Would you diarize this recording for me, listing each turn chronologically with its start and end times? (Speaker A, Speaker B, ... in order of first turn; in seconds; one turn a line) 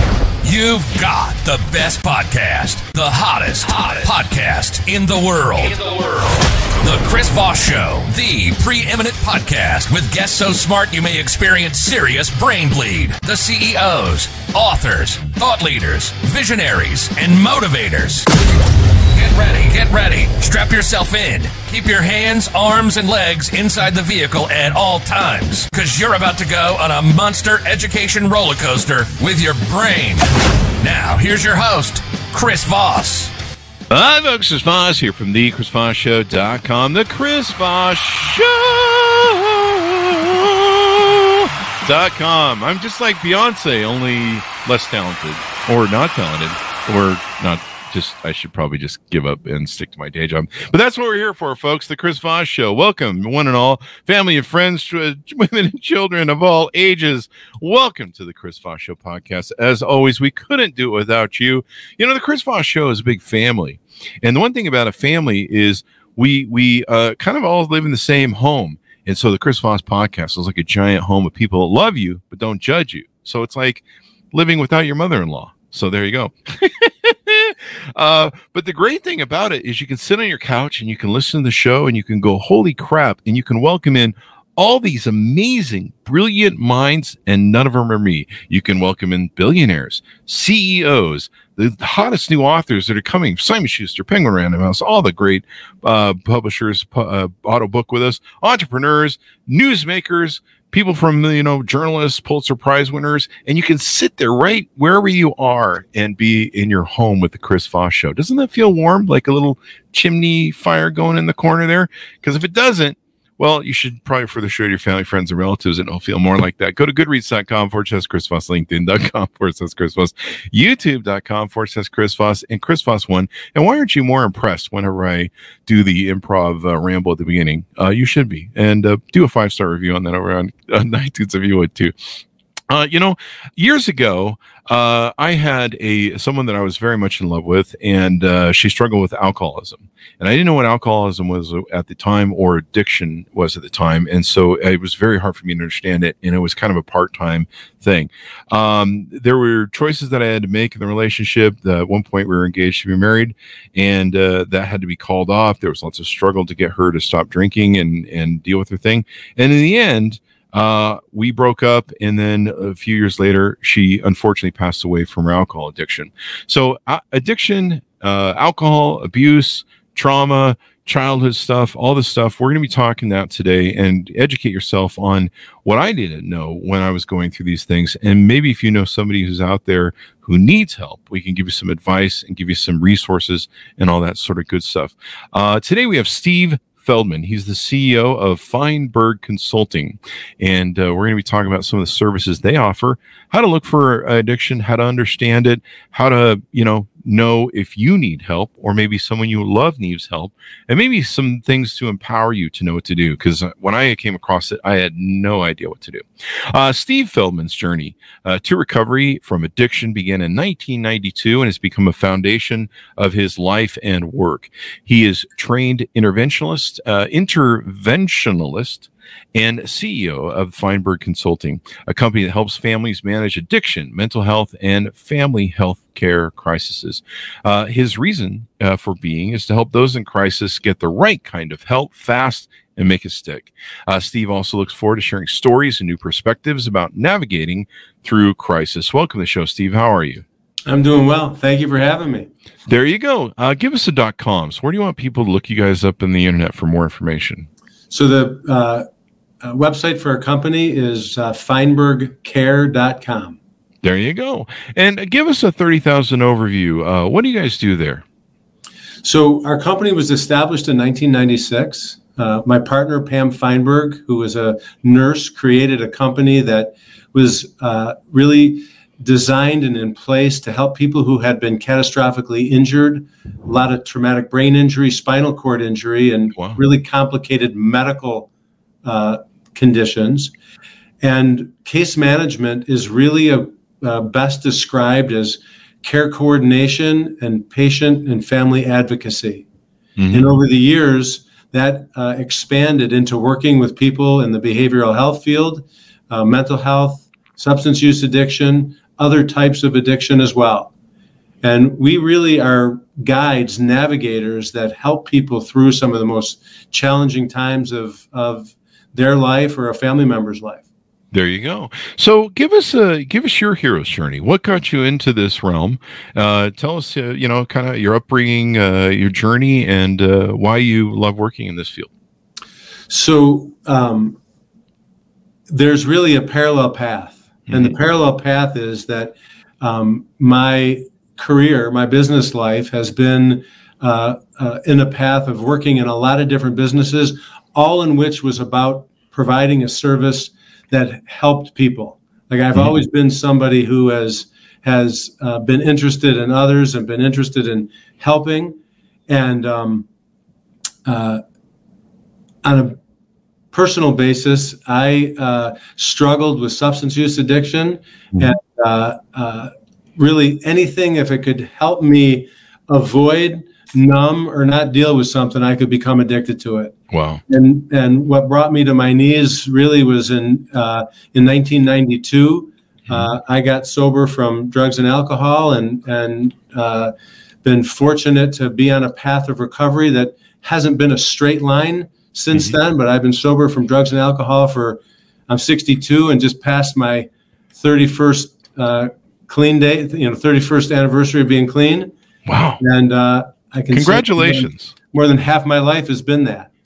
Speaker A: 0.4-18.3
Speaker A: 19.1-33.3
Speaker B: 33.9-131.9
Speaker B: 132.7-240.2
Speaker C: 240.7-242.3
Speaker B: 242.7-247.5
Speaker C: 247.9-248.8
Speaker C: 249.4-253.4
Speaker B: 253.8-258.0
Speaker C: 259.0-278.3
Speaker B: 276.4-276.6
Speaker C: 278.8-280.3
Speaker C: 281.0-289.4
Speaker B: 290.0-290.4
Speaker C: 290.1-300.7
Speaker C: 301.4-310.6
Speaker B: 311.1-321.9
Speaker C: 322.9-324.2
Speaker C: 325.5-348.6
Speaker B: 327.5-327.7
Speaker C: 349.1-349.9
Speaker C: 350.9-351.2
Speaker C: 352.4-352.8
Speaker C: 353.5-366.8
Speaker B: 366.9-367.2
Speaker C: 367.3-376.9
Speaker C: 377.4-391.9
Speaker B: 392.2-392.6
Speaker C: 392.6-396.5
Speaker B: 393.7-394.7